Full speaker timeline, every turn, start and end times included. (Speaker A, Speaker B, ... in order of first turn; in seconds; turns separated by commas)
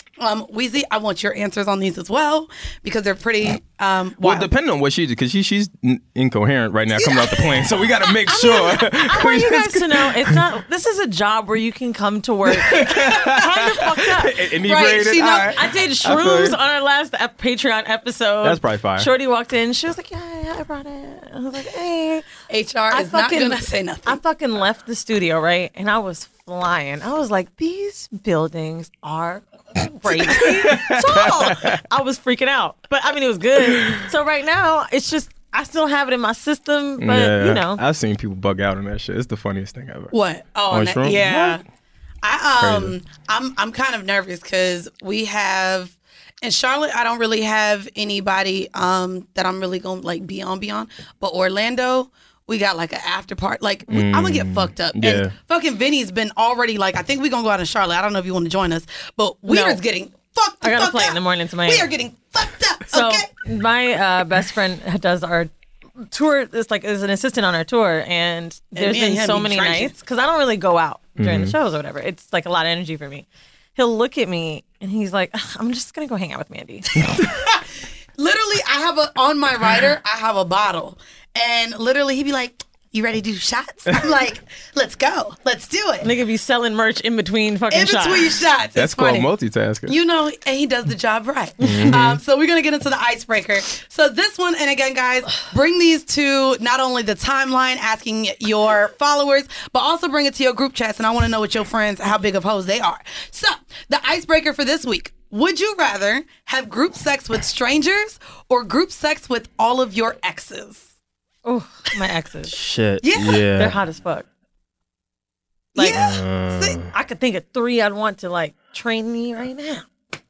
Speaker A: 0.2-4.5, Speaker B: 4.2-10.4, Speaker A: 6.9-7.9, Speaker C: 8.2-14.4, Speaker B: 12.5-16.6, Speaker A: 14.7-15.6, Speaker C: 15.6-22.2, Speaker B: 18.4-19.1, Speaker A: 22.5-24.2, Speaker C: 22.9-37.8, Speaker B: 30.1-31.8, Speaker B: 33.6-34.0, Speaker B: 37.0-40.1, Speaker A: 40.1-41.6, Speaker B: 40.7-41.6, Speaker A: 42.2-63.2, Speaker B: 42.6-43.0, Speaker B: 53.9-55.3, Speaker C: 59.5-59.8, Speaker C: 60.6-61.9, Speaker C: 62.9-65.5, Speaker C: 66.0-77.0, Speaker A: 68.7-70.0, Speaker B: 71.2-71.5, Speaker A: 78.2-86.1, Speaker C: 86.0-88.5, Speaker A: 87.7-89.3, Speaker B: 88.8-90.0, Speaker A: 89.9-110.9, Speaker B: 91.6-92.2, Speaker C: 111.5-112.5, Speaker B: 112.5-113.8, Speaker A: 113.0-113.4, Speaker C: 113.6-114.2, Speaker A: 115.8-116.8, Speaker B: 115.8-116.9, Speaker C: 116.9-119.8